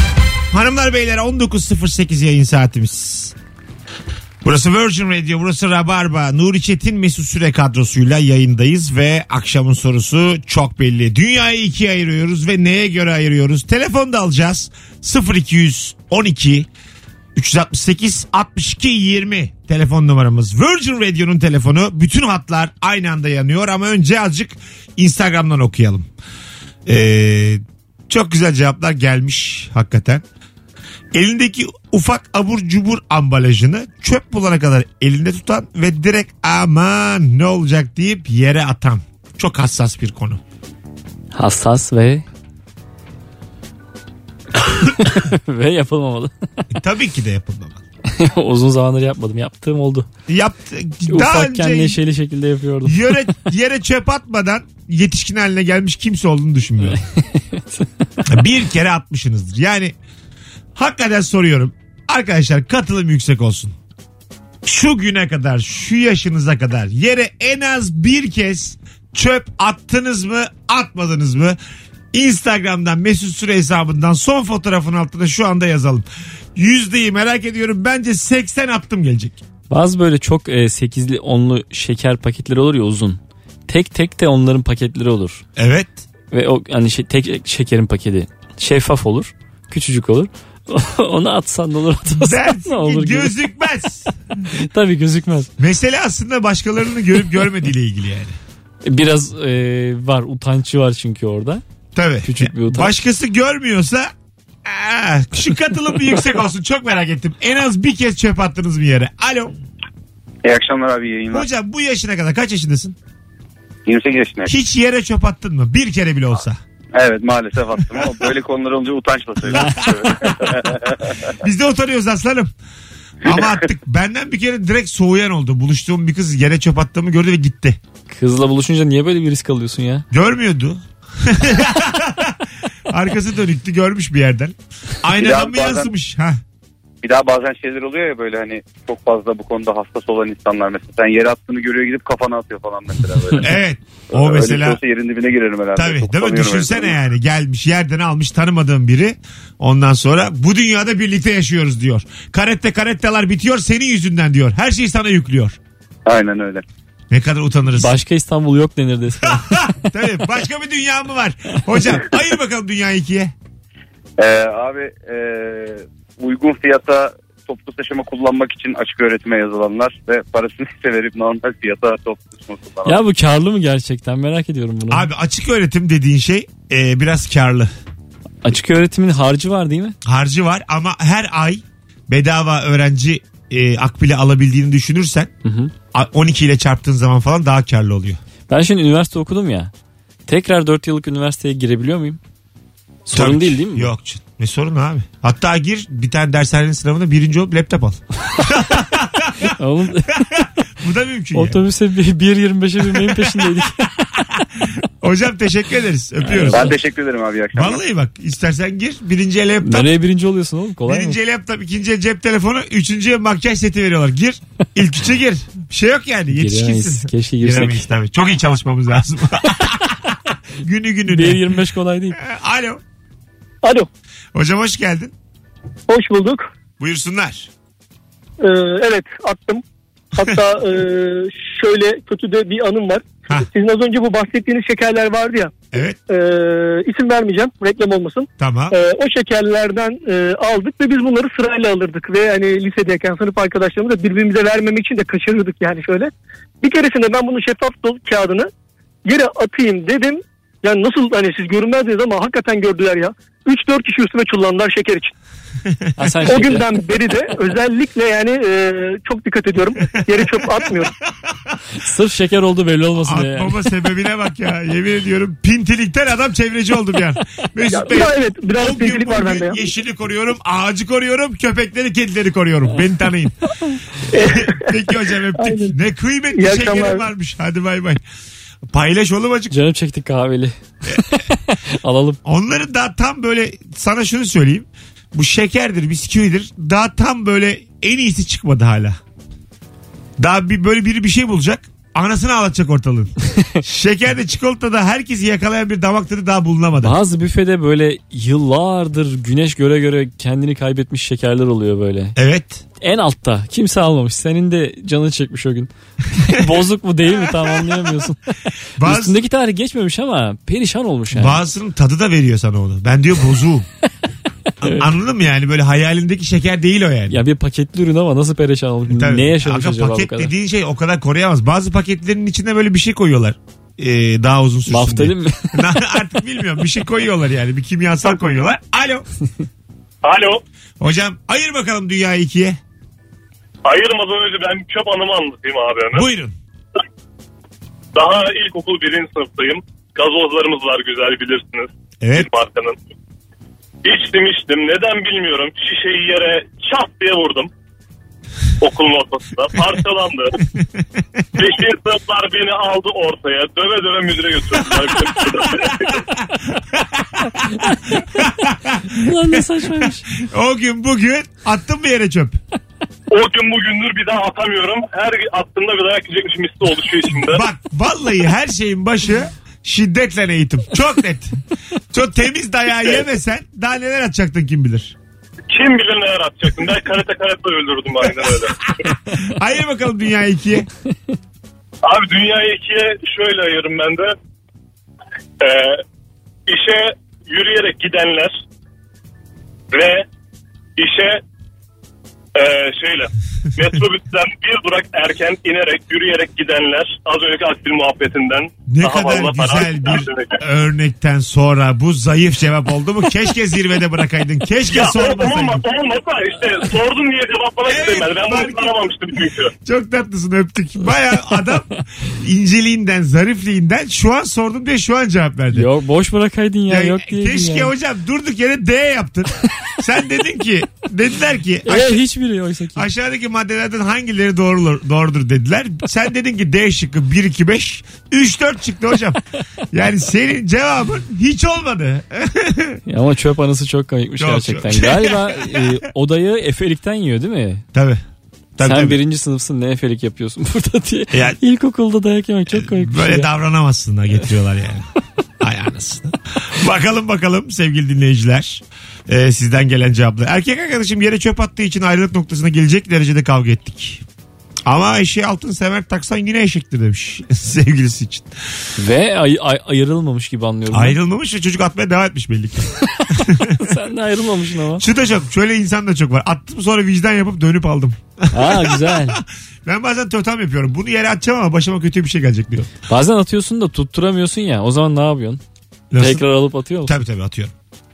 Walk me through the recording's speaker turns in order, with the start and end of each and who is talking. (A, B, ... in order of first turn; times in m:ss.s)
0:00.5-0:03.3 A
0:04.4-0:16.7 A
0:17.3-0:26.1 A
0:26.8-0:30.2 A
0:31.1-0:40.4 A
0:41.3-0:42.2 B
0:44.6-0:46.3 B
0:46.7-0:47.8 A
0:48.1-0:50.1 B
0:50.3-0:52.0 A
0:51.1-0:53.3 B
0:52.8-0:57.0 A
0:56.9-0:57.9 B
0:58.2-0:59.9 A
1:00.7-1:03.7 A
1:04.6-1:11.6 A
1:12.1-1:19.4 A
1:19.7-1:25.4 B
1:25.6-1:26.0 A
1:26.3-1:33.4 B
1:32.1-1:34.2 A
1:34.5-1:35.5 B
1:35.6-1:38.4 A
1:38.8-1:41.6 B
1:41.9-1:44.1 A
1:42.2-1:42.9 B
1:44.6-1:49.6 A
1:50.4-1:51.4 C
1:51.3-1:53.0 A
1:53.9-1:54.5 C
1:54.5-1:56.6 A
1:57.0-2:01.3 C
1:59.4-2:00.8 A
1:59.5-1:59.8 B
2:01.3-2:02.5 A
2:03.2-2:07.8 A
2:03.2-2:03.5 C
2:08.1-2:10.0 B
2:10.1-2:16.4 A
2:15.2-2:15.9 C
2:17.0-2:23.5 C
2:23.4-2:24.8 A
2:24.1-2:26.9 C
2:25.8-2:35.6 A
2:36.0-2:36.6 C
2:37.1-2:38.0 A
2:37.8-2:39.7 B
2:39.2-2:43.3 A
2:44.2-2:53.0 C
2:52.8-2:55.1 B
2:54.9-2:57.7 A
2:58.4-3:00.0 B
3:00.0-3:05.3 A
3:05.4-3:05.7 B
3:05.9-3:08.2 A
3:08.5-3:09.7 B
3:10.3-3:12.2 B
3:13.1-3:13.9 B
3:13.1-3:19.6 A
3:19.4-3:20.4 B
3:20.1-3:21.6 A
3:21.3-3:23.9 B
3:22.9-3:26.8 A
3:26.2-3:26.7 B
3:26.5-3:27.8 C
3:27.5-3:29.9 A
3:29.6-3:31.2 B
3:30.8-3:41.5 A
3:36.3-3:37.8 B
3:41.0-3:42.2 B
3:42.2-3:42.8 A
3:44.3-3:45.1 A
3:45.9-3:46.5 D
3:46.8-3:47.5 A
3:48.4-3:49.6 D
3:50.1-3:55.5 D
3:56.1-4:06.1 D
3:58.4-3:58.8 A
4:06.6-4:08.5 D
4:09.1-4:15.1 D
4:16.0-4:16.7 B
4:16.3-4:20.9 D
4:21.8-4:23.6 B
4:23.0-4:33.4 A
4:27.7-4:29.6 D
4:34.1-4:38.0 A
4:34.1-4:34.6 D
4:35.4-4:35.8 D
4:36.3-4:37.1 D
4:38.7-4:39.5 A
4:39.5-4:42.2 B
4:42.2-4:49.0 A
4:50.2-4:57.0 A
4:53.4-4:53.6 B
4:56.8-5:02.2 B
5:02.2-5:02.6 A
5:02.8-5:05.7 B
5:06.2-5:06.6 A
5:06.2-5:08.2 B
5:07.2-5:07.8 A
5:08.8-5:09.2 A
5:08.8-5:11.4 B
5:11.1-5:13.7 A
5:14.6-5:17.2 A
5:17.1-5:20.3 B
5:18.9-5:29.0 A
5:24.7-5:25.8 B
5:30.0-5:30.4 E
5:30.8-5:32.6 A
5:33.6-5:36.0 E
5:35.9-5:36.4 A
5:37.9-5:42.8 E
5:42.0-5:42.3 A
5:43.8-5:47.5 E
5:48.6-5:50.4 E
5:50.5-5:50.8 A
5:51.4-5:56.0 E
5:54.6-6:02.4 A
5:57.6-5:58.0 B
5:58.9-6:00.1 B
6:03.1-6:07.4 E
6:07.2-6:11.4 A
6:11.9-6:14.9 A
6:15.5-6:18.9 E
6:18.1-6:20.7 A
6:21.8-6:24.1 E
6:25.4-6:25.8 E
6:26.5-6:28.3 E
6:29.7-6:30.0 E
6:30.8-6:31.2 E
6:32.3-6:40.4 E
6:38.7-6:45.6 A
6:44.7-6:49.5 E
6:47.7-6:48.9 A
6:49.6-6:55.7 A
6:51.1-6:51.8 B
6:55.5-6:57.7 B
6:56.7-7:02.0 A
7:01.6-7:02.9 B
7:02.7-7:09.2 A
7:09.7-7:12.8 A
7:12.8-7:17.6 B
7:14.2-7:15.8 A
7:17.7-7:18.0 A
7:18.6-7:19.0 A
7:18.6-7:23.3 B
7:21.1-7:21.4 A
7:22.5-7:24.9 A
7:25.4-7:34.0 A
7:34.6-7:38.3 A
7:38.8-7:41.0 B
7:40.7-7:43.6 A
7:43.0-7:44.8 B
7:44.8-7:52.7 A
7:48.3-7:49.2 B
7:52.9-7:55.4 B
7:55.9-7:56.2 A
7:56.0-7:56.9 B
7:56.8-7:57.5 A